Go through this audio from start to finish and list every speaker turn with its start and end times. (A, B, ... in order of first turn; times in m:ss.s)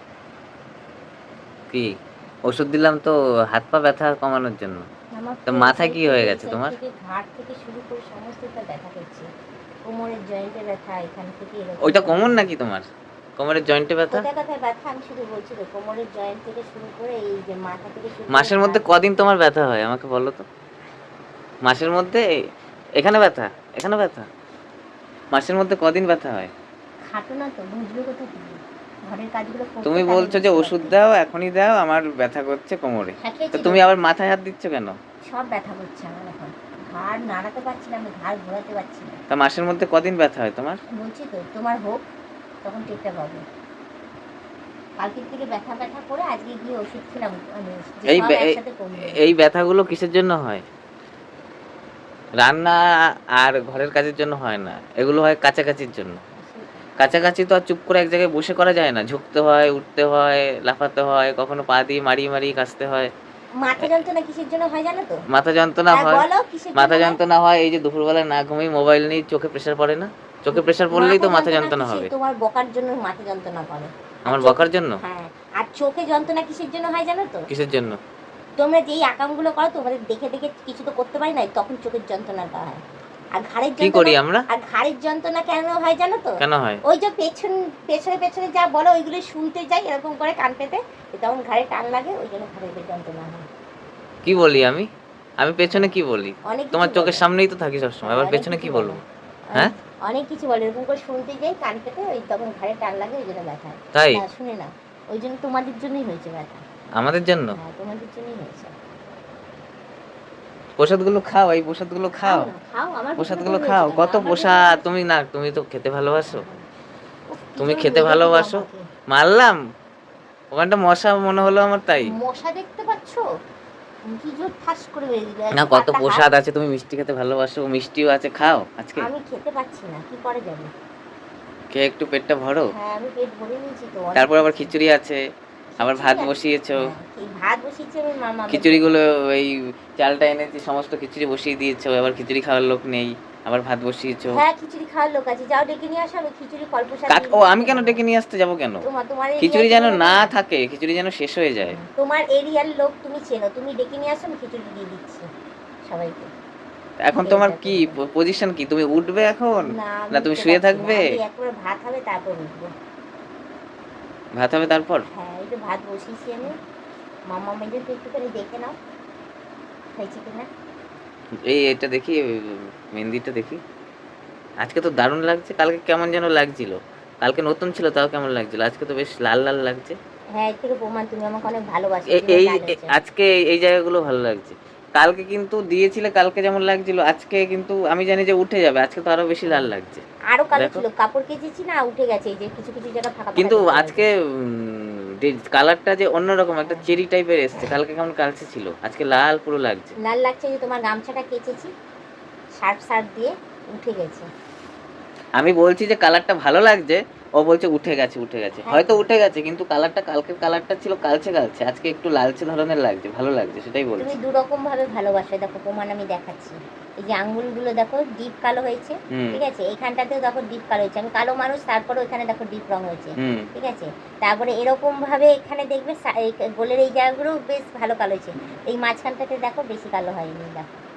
0:01.7-0:04.9 A
0:05.1-0:09.3 B
0:05.5-0:06.8 A
0:09.8-0:12.4 B
0:11.8-0:12.9 A
0:13.4-0:14.3 A
0:14.1-0:18.9 B
0:18.3-0:20.4 A
0:21.6-0:22.2 A
0:23.0-0:24.3 A
0:25.3-0:26.5 A
0:27.0-0:31.0 B
0:29.8-0:35.0 A
0:33.2-0:33.8 B
0:35.3-0:39.2 B
0:39.3-0:40.8 A
0:40.9-0:42.0 B
0:42.6-0:43.4 B
0:45.0-0:49.3 B
0:48.1-0:50.6 A
0:52.4-0:52.8 A
0:53.4-0:56.2 A
0:56.4-0:56.9 B
0:57.0-1:03.1 A
1:03.6-1:05.2 B
1:05.3-1:12.1 A
1:05.9-1:07.2 B
1:10.5-1:17.5 B
1:14.3-1:15.0 A
1:17.5-1:18.0 A
1:18.6-1:22.8 B
1:23.3-1:33.4 B
1:23.8-1:24.4 A
1:26.4-1:26.8 A
1:34.2-1:34.9 A
1:35.4-1:39.0 A
1:36.5-1:37.2 B
1:38.0-1:46.6 B
1:43.9-1:44.2 A
1:47.0-1:47.6 A
1:47.5-1:48.7 B
1:50.8-1:52.5 A
1:52.2-1:54.9 B
1:53.2-1:56.4 A
1:56.3-1:56.6 B
1:57.3-1:58.8 B
1:57.6-1:59.6 A
2:00.5-2:02.1 A
2:02.0-2:03.2 B
2:04.0-2:06.3 B
2:05.6-2:09.1 A
2:09.0-2:10.7 B
2:11.7-2:12.7 A
2:12.7-2:14.7 B
2:14.2-2:15.2 A
2:15.8-2:18.9 B
2:15.8-2:16.9 A
2:18.5-2:24.4 A
2:24.3-2:28.0 B
2:27.1-2:28.8 A
2:28.8-2:30.3 B
2:29.4-2:31.8 A
2:31.7-2:35.3 B
2:35.9-2:36.3 B
2:37.0-2:41.1 A
2:37.1-2:38.0 B
2:39.6-2:42.7 B
2:44.4-2:45.0 A
2:45.1-2:46.6 B
2:47.3-2:48.8 B
2:50.0-2:50.5 B
2:51.5-2:53.6 A
2:54.6-3:00.0 A
3:00.3-3:03.0 B
3:02.1-3:10.0 A
3:10.3-3:14.1 B
3:10.6-3:10.8 A
3:13.4-3:19.9 A
3:16.6-3:16.9 B
3:20.0-3:21.7 B
3:22.6-3:24.3 B
3:25.4-3:34.1 A
3:28.6-3:29.0 B
3:34.0-3:50.8 B
3:39.1-3:39.4 A
3:43.2-3:43.5 A